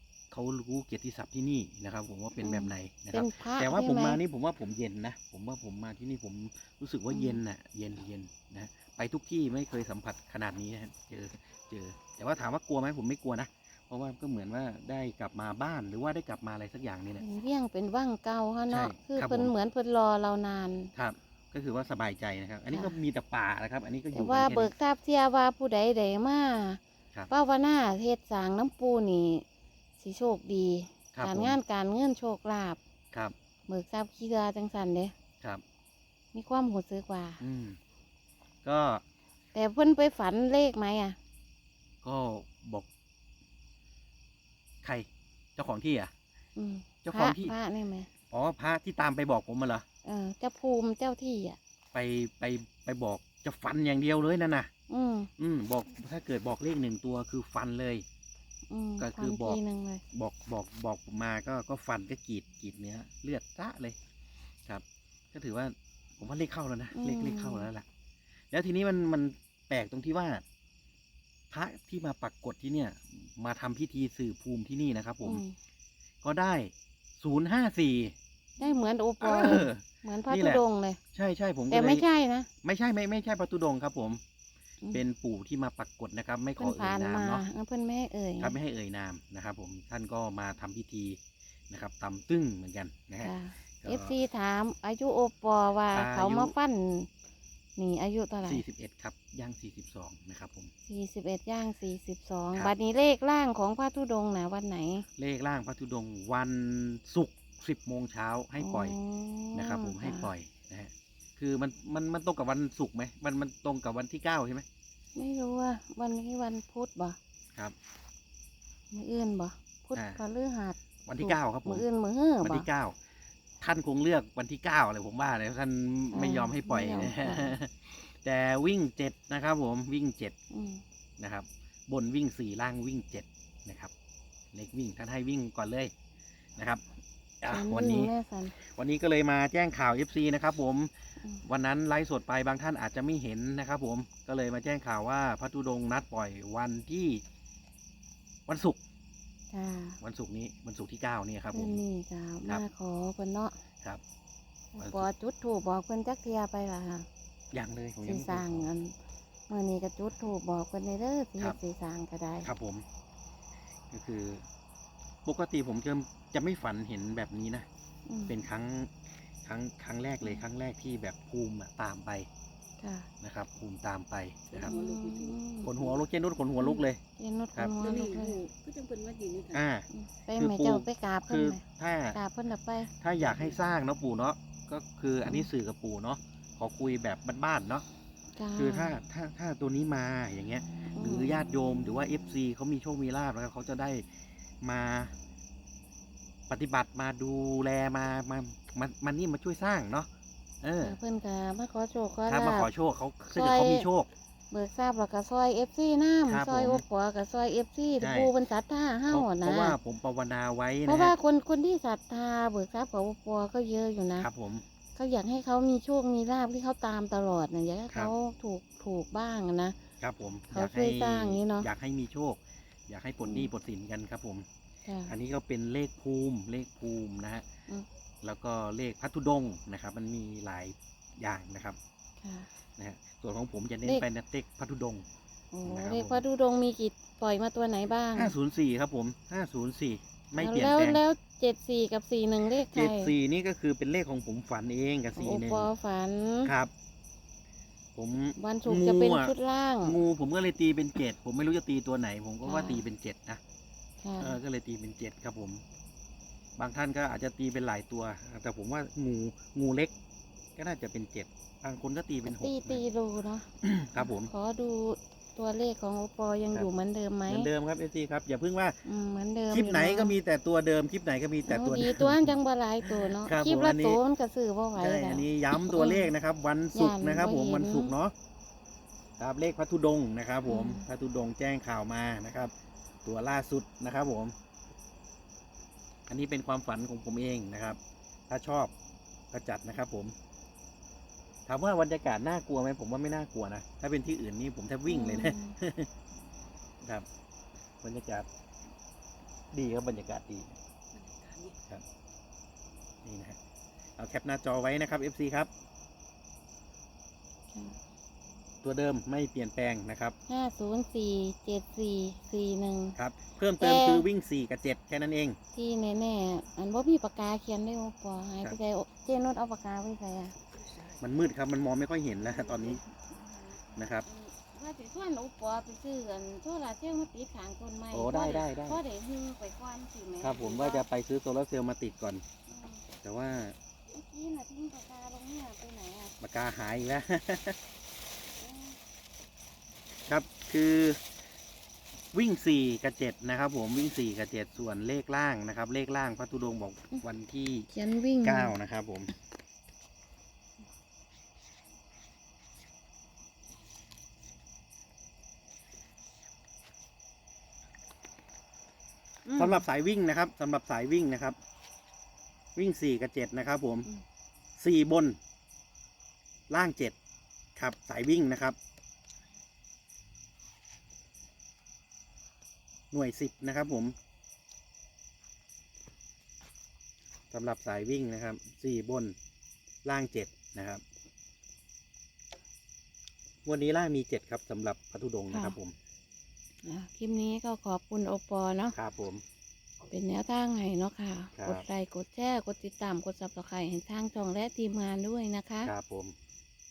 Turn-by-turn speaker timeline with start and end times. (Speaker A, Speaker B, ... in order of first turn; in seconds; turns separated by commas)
Speaker A: 0.3-17.2, Speaker B: 2.4-4.2, Speaker B: 7.1-7.4, Speaker B: 17.2-20.9, Speaker A: 18.7-19.5, Speaker A: 20.9-24.7, Speaker B: 24.1-29.4, Speaker B: 30.0-32.8, Speaker A: 31.1-31.6, Speaker B: 33.7-35.1, Speaker B: 36.3-37.4, Speaker A: 37.4-37.8, Speaker A: 38.6-39.0, Speaker B: 39.5-41.2, Speaker A: 42.0-42.9, Speaker A: 44.8-46.1, Speaker B: 46.6-48.1, Speaker A: 47.0-47.5, Speaker A: 48.3-49.8, Speaker B: 50.0-51.6, Speaker A: 51.9-54.7, Speaker B: 54.9-55.3, Speaker A: 55.4-58.0, Speaker B: 58.7-60.0, Speaker A: 59.0-59.6, Speaker A: 60.1-64.0, Speaker A: 64.7-67.9, Speaker B: 66.9-67.7, Speaker A: 68.5-70.4, Speaker A: 71.5-75.4, Speaker B: 75.2-75.5, Speaker A: 76.2-78.1, Speaker B: 78.6-81.0, Speaker A: 79.2-80.6, Speaker A: 81.1-82.1, Speaker B: 81.7-82.5, Speaker A: 82.6-84.2, Speaker A: 84.9-87.5, Speaker B: 86.6-88.6, Speaker A: 88.4-91.2, Speaker A: 91.7-94.2, Speaker B: 93.2-97.1, Speaker A: 95.9-96.5, Speaker B: 97.8-98.6, Speaker A: 98.4-100.7, Speaker B: 100.9-105.1, Speaker A: 105.2-109.0, Speaker B: 108.6-110.3, Speaker A: 109.5-114.6, Speaker B: 115.2-117.2, Speaker B: 118.9-122.7, Speaker A: 119.9-120.2, Speaker A: 121.1-121.9, Speaker A: 122.4-123.0, Speaker A: 123.6-130.3, Speaker B: 126.1-127.6, Speaker B: 130.5-130.8, Speaker A: 131.2-133.9, Speaker A: 134.5-135.9, Speaker A: 136.6-136.8, Speaker A: 137.4-140.9, Speaker B: 137.5-138.6, Speaker A: 141.4-147.2, Speaker A: 148.5-148.8, Speaker B: 149.5-150.0, Speaker A: 150.0-151.8, Speaker B: 151.5-153.6, Speaker B: 154.7-157.1, Speaker A: 154.8-155.1, Speaker A: 157.5-158.7, Speaker B: 158.0-158.9, Speaker B: 159.5-162.5, Speaker A: 162.4-162.8, Speaker A: 163.9-164.4, Speaker A: 165.2-167.7, Speaker B: 168.1-168.4, Speaker A: 168.3-172.3, Speaker B: 172.8-173.1, Speaker A: 173.2-174.7, Speaker C: 174.5-176.0, Speaker B: 174.6-175.7, Speaker A: 175.6-177.0, Speaker B: 176.6-178.4, Speaker C: 177.8-179.6, Speaker A: 179.5-182.2, Speaker B: 179.9-181.6, Speaker B: 182.1-182.9, Speaker A: 183.0-187.8, Speaker B: 188.4-189.0, Speaker A: 188.6-194.1, Speaker B: 190.9-191.5, Speaker A: 194.6-195.1, Speaker A: 196.5-200.1, Speaker A: 200.6-201.0, Speaker B: 200.8-202.7, Speaker A: 202.3-204.1, Speaker B: 203.3-203.9, Speaker B: 204.5-209.8, Speaker A: 206.3-206.8, Speaker A: 208.0-208.3, Speaker A: 209.1-211.1, Speaker B: 210.9-214.3, Speaker A: 214.2-214.6, Speaker B: 214.9-219.8, Speaker A: 220.0-224.5, Speaker B: 220.5-221.7, Speaker B: 223.2-223.5, Speaker B: 224.8-225.2, Speaker A: 225.1-227.4, Speaker A: 228.2-231.8, Speaker B: 232.2-232.5, Speaker A: 232.8-235.1, Speaker B: 235.5-238.3, Speaker A: 235.7-236.2, Speaker A: 238.1-241.0, Speaker B: 240.4-243.1, Speaker A: 242.6-245.7, Speaker B: 245.1-246.5, Speaker A: 246.4-246.7, Speaker A: 247.9-253.4, Speaker B: 248.4-250.0, Speaker B: 252.4-252.8, Speaker B: 254.0-254.4, Speaker A: 254.2-255.6, Speaker A: 256.6-259.9, Speaker A: 260.6-262.8, Speaker B: 262.3-267.5, Speaker A: 263.6-264.3, Speaker A: 267.3-268.8, Speaker B: 268.9-270.2, Speaker A: 269.5-274.0, Speaker B: 271.5-276.1, Speaker A: 274.8-278.1, Speaker B: 276.7-277.9, Speaker A: 279.2-282.5, Speaker B: 280.4-280.9, Speaker A: 283.0-284.4, Speaker A: 286.1-288.7, Speaker A: 289.3-290.1, Speaker A: 291.5-295.9, Speaker B: 294.9-295.6, Speaker A: 297.8-298.3, Speaker A: 299.5-300.6, Speaker C: 300.9-301.6, Speaker A: 303.0-303.4, Speaker A: 304.0-305.5, Speaker B: 307.5-307.8, Speaker A: 308.6-310.2, Speaker B: 310.3-312.9, Speaker A: 312.9-315.4, Speaker B: 313.6-314.1, Speaker B: 315.5-320.4, Speaker A: 321.0-322.8, Speaker B: 322.3-330.9, Speaker A: 323.8-324.1, Speaker A: 327.9-328.8, Speaker A: 330.2-332.2, Speaker B: 332.5-332.8, Speaker A: 333.0-333.6, Speaker B: 333.9-336.1, Speaker A: 336.2-337.6, Speaker B: 338.3-338.8, Speaker A: 340.1-341.0, Speaker A: 342.1-347.7, Speaker B: 347.7-348.6, Speaker A: 348.2-349.1, Speaker B: 359.2-359.6, Speaker A: 359.4-361.4, Speaker A: 362.6-363.9, Speaker A: 364.6-365.2, Speaker A: 366.5-367.0, Speaker A: 367.6-368.6, Speaker A: 372.9-373.9, Speaker A: 377.3-379.1, Speaker A: 379.8-380.8, Speaker A: 383.4-385.8, Speaker B: 385.3-385.6, Speaker B: 386.6-388.8, Speaker A: 388.7-389.2, Speaker B: 389.9-395.7, Speaker A: 391.3-391.6, Speaker A: 395.6-396.1